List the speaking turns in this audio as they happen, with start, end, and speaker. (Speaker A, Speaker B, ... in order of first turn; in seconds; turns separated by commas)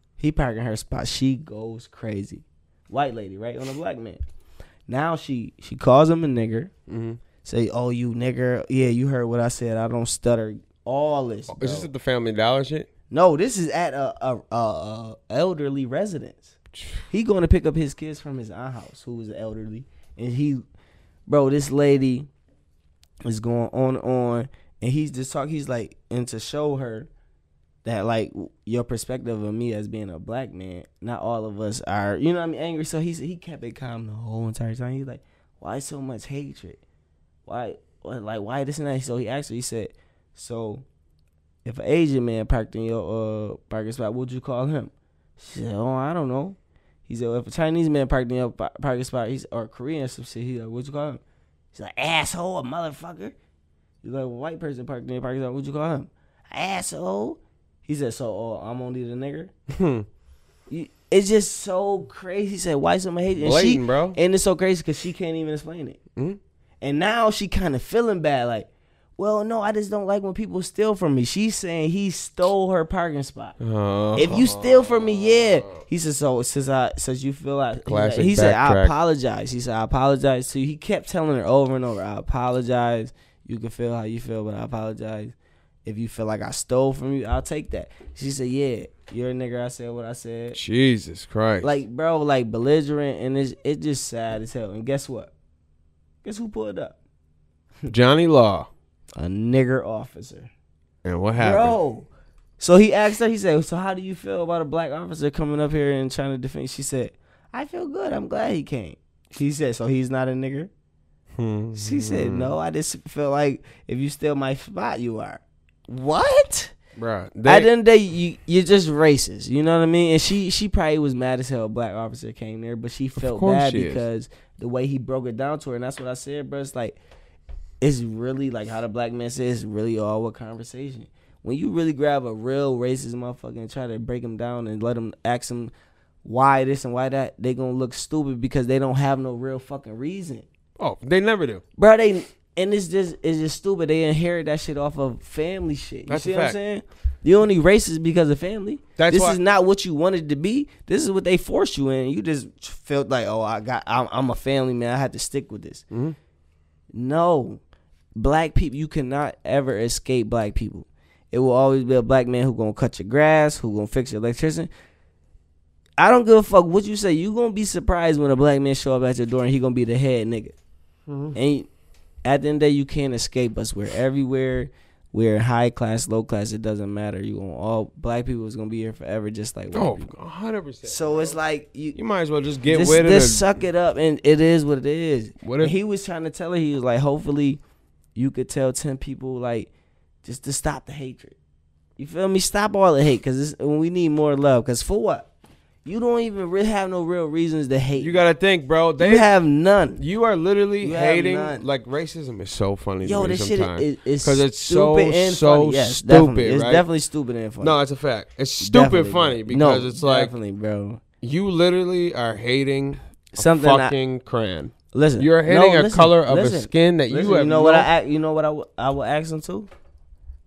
Speaker A: 0.2-4.2, Speaker A: 4.9-6.7, Speaker B: 6.9-7.2, Speaker A: 7.4-11.9, Speaker B: 11.5-12.9, Speaker A: 13.1-16.5, Speaker A: 17.1-20.6, Speaker A: 21.3-22.3, Speaker A: 23.2-27.1, Speaker A: 27.8-36.8, Speaker A: 37.5-40.8, Speaker A: 41.6-51.2, Speaker A: 51.7-53.3, Speaker A: 54.0-59.5, Speaker B: 59.7-60.0, Speaker A: 60.7-66.0, Speaker B: 63.4-64.2, Speaker A: 66.8-73.6, Speaker B: 73.6-75.8, Speaker A: 74.2-85.3, Speaker B: 77.8-78.9, Speaker A: 85.8-90.6, Speaker B: 90.5-91.8, Speaker A: 91.6-95.3, Speaker A: 96.2-97.0, Speaker B: 97.9-98.7, Speaker A: 99.2-100.5, Speaker B: 101.0-101.8, Speaker A: 101.4-102.1, Speaker A: 102.6-110.7, Speaker B: 111.4-112.5, Speaker A: 111.7-116.7, Speaker B: 117.0-117.7, Speaker A: 117.4-127.0, Speaker B: 123.2-124.0, Speaker A: 127.8-135.7, Speaker A: 136.2-140.4, Speaker B: 140.8-141.6, Speaker A: 141.8-155.8, Speaker B: 146.1-146.6, Speaker B: 149.0-149.4, Speaker B: 155.9-156.2, Speaker A: 156.9-157.6, Speaker A: 158.2-164.7, Speaker A: 166.0-170.5, Speaker B: 171.1-171.4, Speaker A: 171.3-171.7, Speaker A: 172.2-180.1, Speaker B: 179.7-181.3, Speaker A: 180.8-182.0, Speaker B: 181.9-183.4, Speaker A: 182.7-187.6, Speaker B: 185.4-185.7, Speaker A: 188.2-189.7, Speaker A: 190.2-191.3, Speaker A: 192.0-195.3, Speaker A: 195.8-198.2, Speaker B: 198.0-199.3, Speaker A: 199.0-200.0, Speaker B: 200.0-206.8, Speaker A: 200.8-201.7, Speaker A: 203.0-207.7, Speaker B: 207.6-210.3, Speaker A: 208.6-211.0, Speaker B: 211.2-217.9, Speaker A: 213.3-213.9, Speaker A: 214.9-219.7